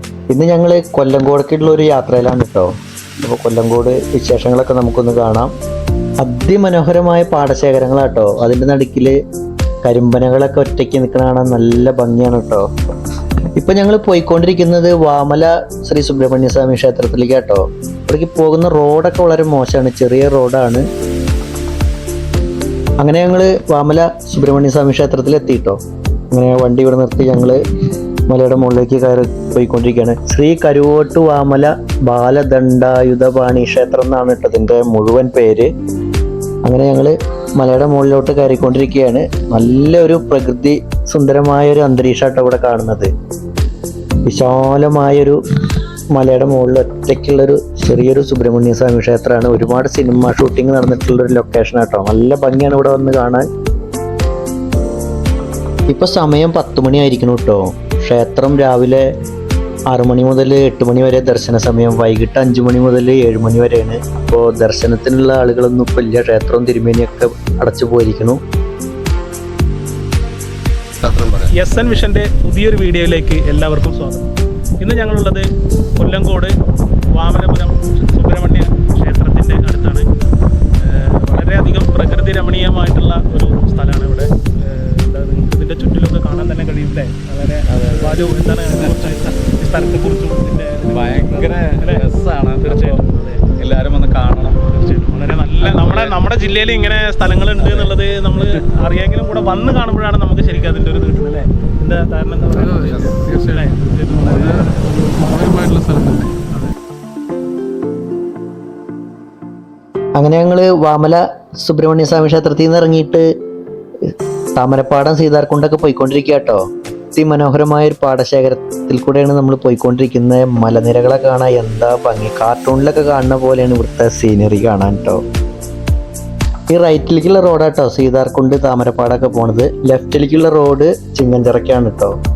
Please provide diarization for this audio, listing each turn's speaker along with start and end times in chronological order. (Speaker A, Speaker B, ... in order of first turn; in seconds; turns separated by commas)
Speaker A: 0.3-5.5, Speaker A: 6.2-9.2, Speaker A: 9.8-12.7, Speaker A: 13.6-20.8, Speaker A: 23.0-25.8, Speaker A: 26.3-27.6, Speaker A: 28.3-35.7, Speaker A: 36.6-43.1, Speaker A: 44.2-45.4, Speaker A: 46.1-53.5, Speaker A: 55.9-59.0, Speaker A: 59.9-68.4, Speaker B: 71.2-76.5, Speaker B: 77.1-80.1, Speaker B: 80.8-93.5, Speaker C: 87.7-88.1, Speaker C: 90.9-93.0, Speaker C: 93.5-94.6, Speaker B: 94.6-105.4, Speaker C: 95.6-96.1, Speaker C: 97.6-98.0, Speaker C: 102.5-106.3, Speaker A: 110.2-113.2, Speaker A: 114.5-125.2, Speaker A: 126.7-132.2